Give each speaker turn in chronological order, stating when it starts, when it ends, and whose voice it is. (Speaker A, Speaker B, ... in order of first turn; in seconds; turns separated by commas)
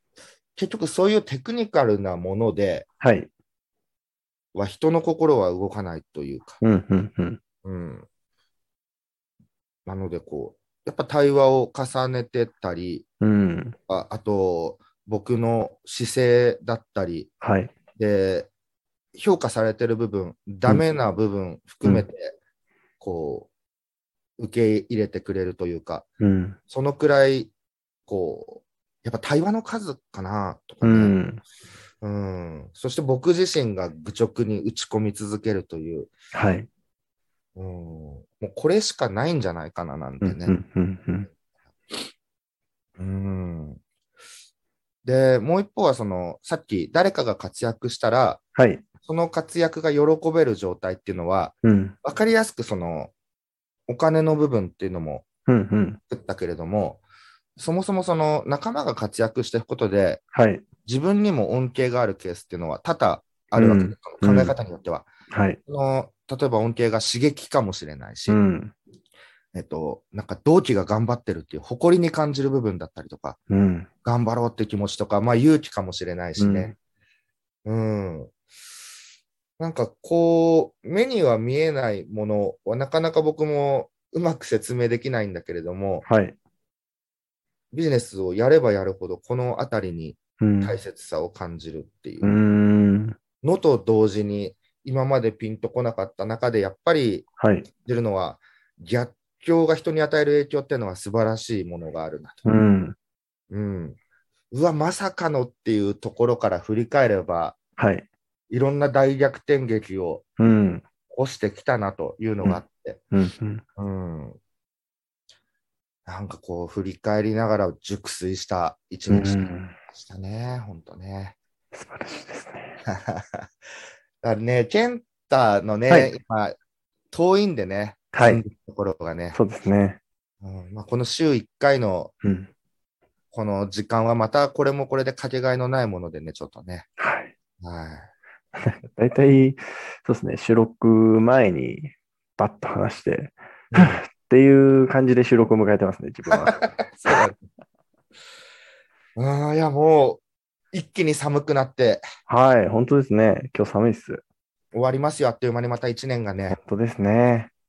Speaker A: 0.6-2.9, Speaker B: 3.0-3.3, Speaker A: 4.5-6.6, Speaker B: 6.6-7.4, Speaker A: 7.6-8.1, Speaker A: 9.8-13.1, Speaker B: 13.2-13.8, Speaker A: 13.9-17.3, Speaker B: 17.4-17.7, Speaker A: 18.0-18.5, Speaker A: 19.1-22.3, Speaker A: 23.0-23.5, Speaker A: 24.4-26.1, Speaker B: 26.2-26.6, Speaker A: 26.7-27.5, Speaker A: 28.1-31.2, Speaker B: 30.8-31.4, Speaker A: 32.0-36.1, Speaker B: 36.3-36.7, Speaker A: 37.5-40.5, Speaker B: 40.2-41.3, Speaker A: 43.0-43.8, Speaker A: 45.0-48.4, Speaker B: 48.5-48.8, Speaker A: 49.0-53.1, Speaker B: 51.6-52.0, Speaker A: 53.9-55.3, Speaker B: 55.5-56.0, Speaker A: 56.1-57.0, Speaker A: 57.6-60.2, Speaker B: 60.3-60.6, Speaker A: 60.9-65.1, Speaker B: 63.5-64.5, Speaker B: 65.3-65.6, Speaker A: 65.7-68.4, Speaker B: 68.3-68.7, Speaker A: 69.5-73.4, Speaker B: 73.5-73.9, Speaker A: 74.0-76.7, Speaker B: 76.4-76.7, Speaker A: 77.6-78.3, Speaker A: 79.6-86.0, Speaker B: 86.0-86.3, Speaker A: 87.7-92.4, Speaker B: 90.4-90.8, Speaker B: 92.2-93.2, Speaker A: 93.4-97.3, Speaker B: 97.4-97.7, Speaker A: 97.8-102.4, Speaker B: 102.4-103.0, Speaker A: 103.5-104.0, Speaker A: 104.5-107.6, Speaker B: 107.8-108.1, Speaker A: 108.5-110.2, Speaker B: 110.4-110.8, Speaker A: 111.1-113.0, Speaker B: 112.4-113.6, Speaker A: 113.8-114.4, Speaker A: 116.0-121.3, Speaker B: 119.1-119.7, Speaker B: 121.7-122.8, Speaker A: 122.8-123.5, Speaker A: 124.2-126.5, Speaker B: 125.9-126.1, Speaker A: 127.1-129.4, Speaker B: 128.1-128.4, Speaker B: 129.3-130.0, Speaker A: 130.4-132.1, Speaker B: 132.2-132.5, Speaker A: 133.3-136.9, Speaker B: 137.0-137.3, Speaker A: 137.6-138.1, Speaker B: 138.6-146.6, Speaker A: 143.7-144.0, Speaker A: 146.3-147.4, Speaker A: 149.2-150.2, Speaker A: 150.7-152.0, Speaker B: 152.3-154.2, Speaker A: 154.7-156.6, Speaker B: 156.5-157.5